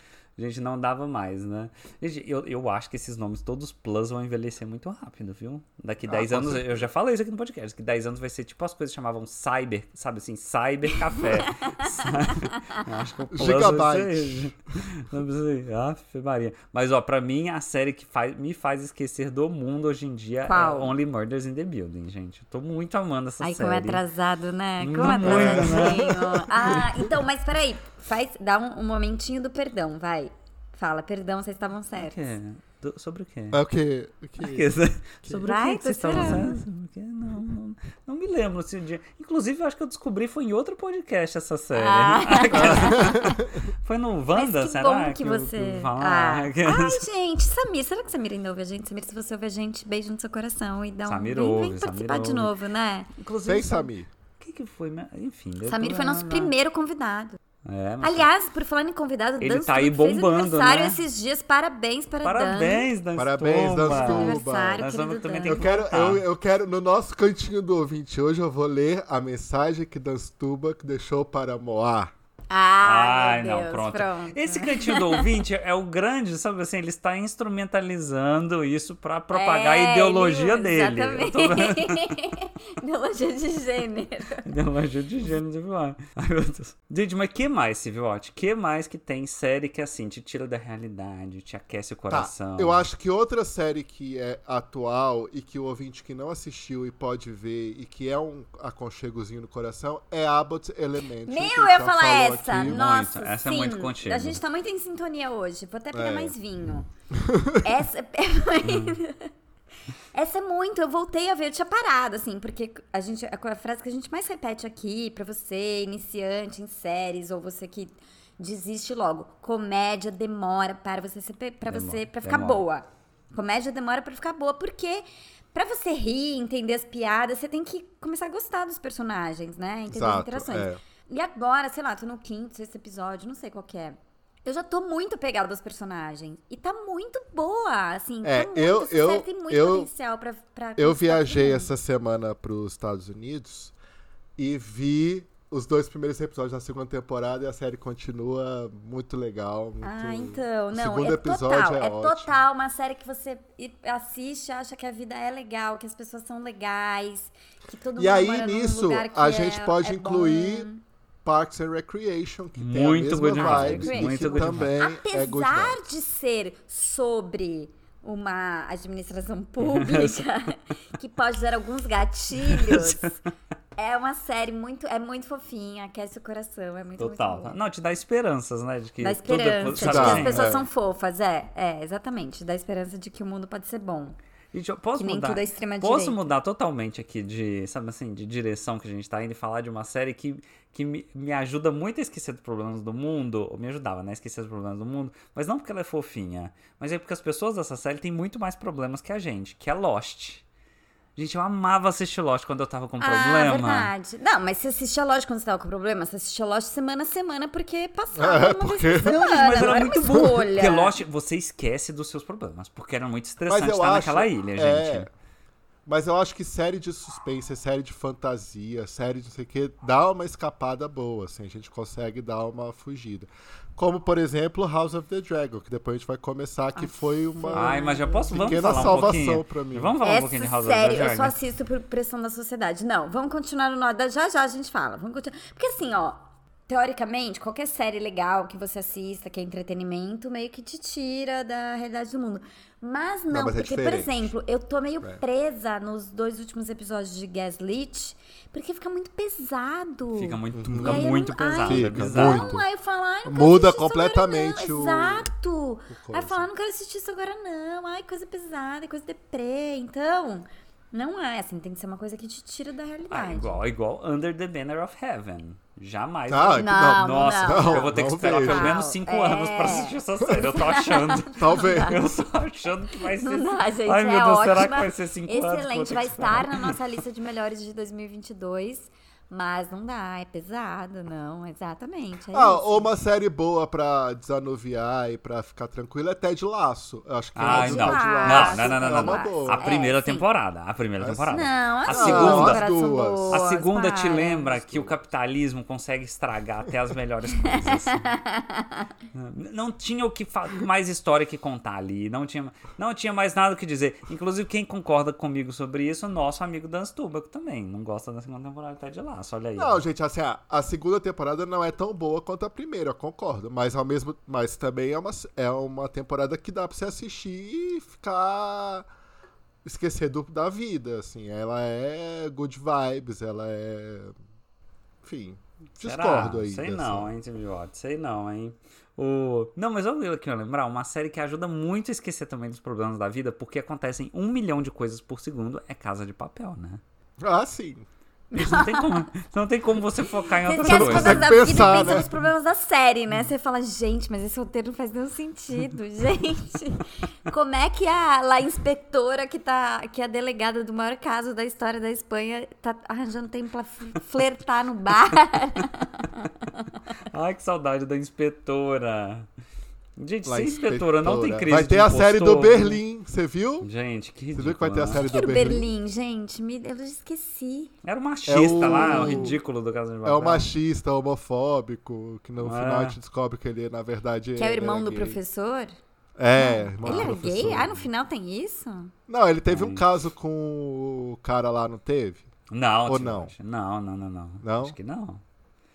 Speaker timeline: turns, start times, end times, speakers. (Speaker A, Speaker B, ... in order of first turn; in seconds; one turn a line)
Speaker A: 0.4-24.0
Speaker B: 6.0-6.9
Speaker C: 11.8-12.8
Speaker B: 13.3-14.5
Speaker C: 20.4-20.9
Speaker C: 23.4-32.2
Speaker A: 24.8-26.2
Speaker B: 25.0-26.9
Speaker A: 31.9-33.6
Speaker B: 33.5-34.7
Speaker A: 34.4-47.0
Speaker C: 35.3-36.6
Speaker C: 41.7-43.5
Speaker B: 42.5-43.5
Speaker C: 44.3-53.1
Speaker A: 51.0-52.5
Speaker A: 53.2-53.9
Speaker B: 53.4-54.1
Speaker A: 54.4-56.5
Speaker C: 55.7-57.4
Speaker A: 57.6-58.3
Speaker C: 58.0-62.9
Speaker A: 59.4-61.0
Speaker A: 62.2-66.2
Speaker B: 63.1-64.8
Speaker C: 63.9-65.6
Speaker B: 65.5-72.1
Speaker C: 72.5-75.3
Speaker A: 72.8-82.2
Speaker C: 79.3-84.5
Speaker A: 84.4-92.8
Speaker B: 92.1-102.8
Speaker C: 101.2-106.9
Speaker A: 102.5-104.4
Speaker B: 105.9-106.3
Speaker B: 107.1-107.6
Speaker C: 107.6-109.3
Speaker A: 108.6-109.0
Speaker C: 110.1-141.7
Speaker A: 121.7-122.6
Speaker B: 129.9-130.8
Speaker B: 138.2-139.9
Speaker B: 140.8-143.7
Speaker B: 144.4-152.3
Speaker C: 149.8-160.8
Speaker B: 158.0-160.7
Speaker B: 161.2-165.9
Speaker A: 162.6-164.8
Speaker C: 163.3-173.2
Speaker A: 169.6-170.3
Speaker A: 172.4-173.2
Speaker C: 173.8-177.6
Speaker A: 177.0-180.6
Speaker C: 179.0-184.2
Speaker B: 179.8-180.6
Speaker A: 184.5-200.4
Speaker C: 185.0-186.3
Speaker A: 201.2-203.9
Speaker C: 203.0-210.9
Speaker B: 208.2-209.2
Speaker A: 209.0-215.1
Speaker B: 213.5-215.1
Speaker B: 215.8-229.9
Speaker C: 226.8-229.1
Speaker A: 227.5-231.3
Speaker C: 230.0-263.6
Speaker B: 243.3-244.3
Speaker A: 250.2-252.5
Speaker B: 250.5-251.1
Speaker B: 251.7-252.6
Speaker B: 253.2-255.3
Speaker B: 255.9-256.4
Speaker A: 263.1-276.8
Speaker B: 266.3-268.7
Speaker C: 266.6-272.0
Speaker B: 271.4-272.0
Speaker C: 273.1-282.9
Speaker B: 282.3-289.7
Speaker A: 287.3-292.6
Speaker C: 287.4-290.2
Speaker C: 291.3-294.6
Speaker B: 291.9-293.4
Speaker A: 293.3-298.1
Speaker C: 297.4-298.9
Speaker A: 299.1-309.8
Speaker B: 309.6-318.9
Speaker B: 319.6-324.1
Speaker B: 325.0-327.1
Speaker A: 325.8-336.8
Speaker B: 337.2-337.9
Speaker C: 338.3-339.1
Speaker A: 338.3-342.0
Speaker C: 340.4-356.7
Speaker B: 340.6-342.1
Speaker A: 357.1-359.3
Speaker A: 360.0-362.8
Speaker B: 360.2-363.7
Speaker A: 363.6-365.0
Speaker B: 364.3-365.7
Speaker C: 364.9-367.7
Speaker A: 367.8-370.5
Speaker B: 368.2-369.4
Speaker C: 368.6-369.4
Speaker B: 370.0-375.2
Speaker A: 372.4-373.0
Speaker C: 374.4-375.7
Speaker B: 376.2-377.7
Speaker C: 376.4-378.9
Speaker A: 376.8-377.8
Speaker B: 379.1-382.3
Speaker A: 379.5-379.8
Speaker A: 382.5-385.2
Speaker B: 382.9-383.3
Speaker B: 384.4-384.8